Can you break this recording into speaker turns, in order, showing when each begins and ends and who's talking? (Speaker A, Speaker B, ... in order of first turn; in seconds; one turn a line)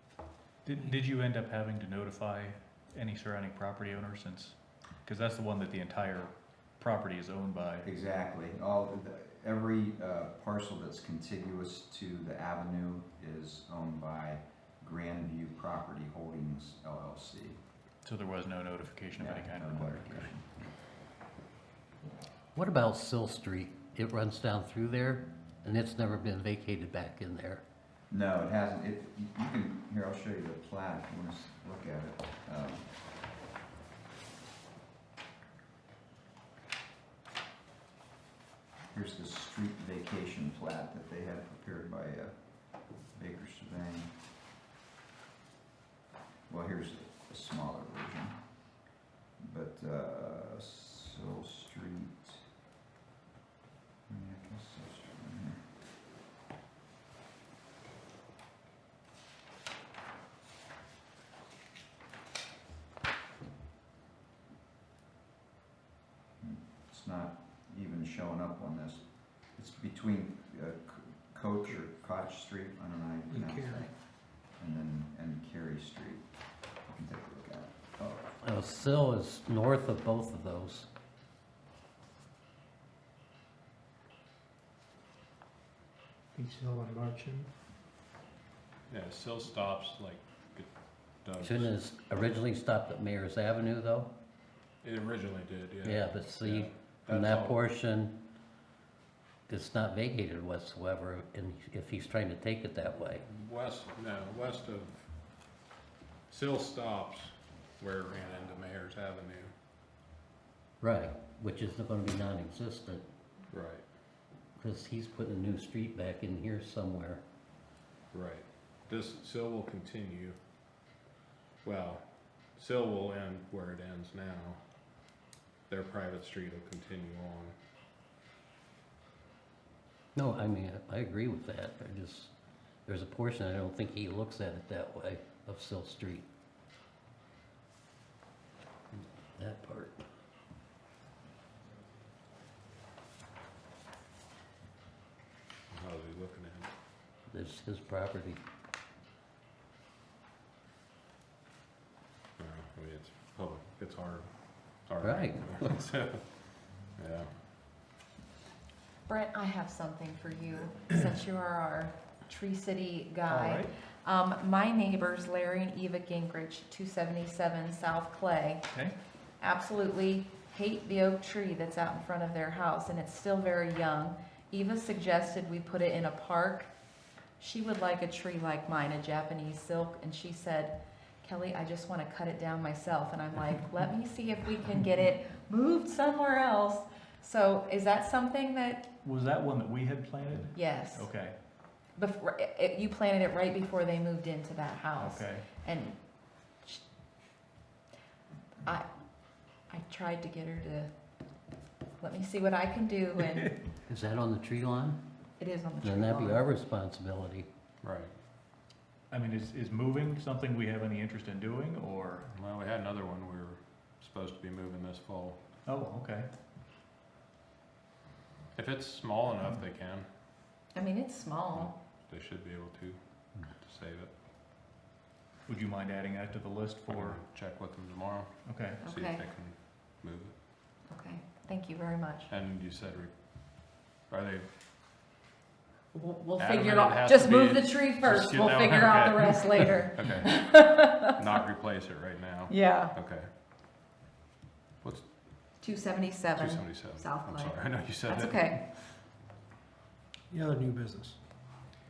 Speaker A: 0.6-7.9
Speaker B: 7.8-17.6
Speaker A: 18.0-20.3
Speaker B: 19.2-20.7
Speaker C: 22.6-27.6
Speaker B: 28.1-32.9
Speaker B: 38.9-44.1
Speaker B: 46.5-48.7
Speaker B: 49.4-52.5
Speaker B: 54.1-55.6
Speaker B: 66.4-76.3
Speaker D: 73.3-73.9
Speaker B: 76.8-78.3
Speaker C: 78.4-80.9
Speaker D: 86.3-87.5
Speaker E: 88.9-91.8
Speaker C: 91.4-94.1
Speaker E: 94.8-97.6
Speaker C: 95.8-98.1
Speaker C: 99.5-103.2
Speaker E: 103.2-105.0
Speaker E: 106.3-109.5
Speaker C: 110.8-113.0
Speaker E: 113.5-113.8
Speaker C: 114.6-117.2
Speaker E: 118.1-120.4
Speaker E: 121.6-124.6
Speaker E: 125.7-127.5
Speaker C: 130.1-132.3
Speaker C: 132.8-136.2
Speaker C: 138.9-140.0
Speaker E: 145.7-146.7
Speaker C: 147.3-148.4
Speaker E: 152.4-157.3
Speaker C: 155.0-155.3
Speaker F: 159.1-168.7
Speaker A: 163.3-163.7
Speaker F: 169.4-176.7
Speaker F: 177.4-188.9
Speaker A: 189.0-191.4
Speaker F: 190.5-191.1
Speaker F: 191.9-196.0
Speaker A: 195.0-195.5
Speaker F: 199.6-200.9
Speaker F: 202.0-203.6
Speaker C: 203.9-205.0
Speaker F: 205.4-206.4
Speaker C: 205.8-207.5
Speaker E: 207.8-208.1
Speaker A: 209.1-212.3
Speaker E: 212.3-215.4
Speaker A: 215.6-216.3
Speaker E: 218.5-220.1
Speaker F: 220.7-221.8
Speaker E: 221.5-224.1
Speaker A: 225.4-227.2
Speaker E: 226.9-230.4
Speaker A: 228.4-228.8
Speaker F: 228.8-229.2
Speaker F: 230.9-232.3
Speaker E: 232.3-234.5
Speaker F: 235.9-241.5
Speaker E: 236.4-243.3
Speaker F: 242.5-242.9
Speaker E: 244.8-245.1
Speaker F: 245.6-248.6
Speaker E: 246.3-249.0
Speaker D: 250.3-251.2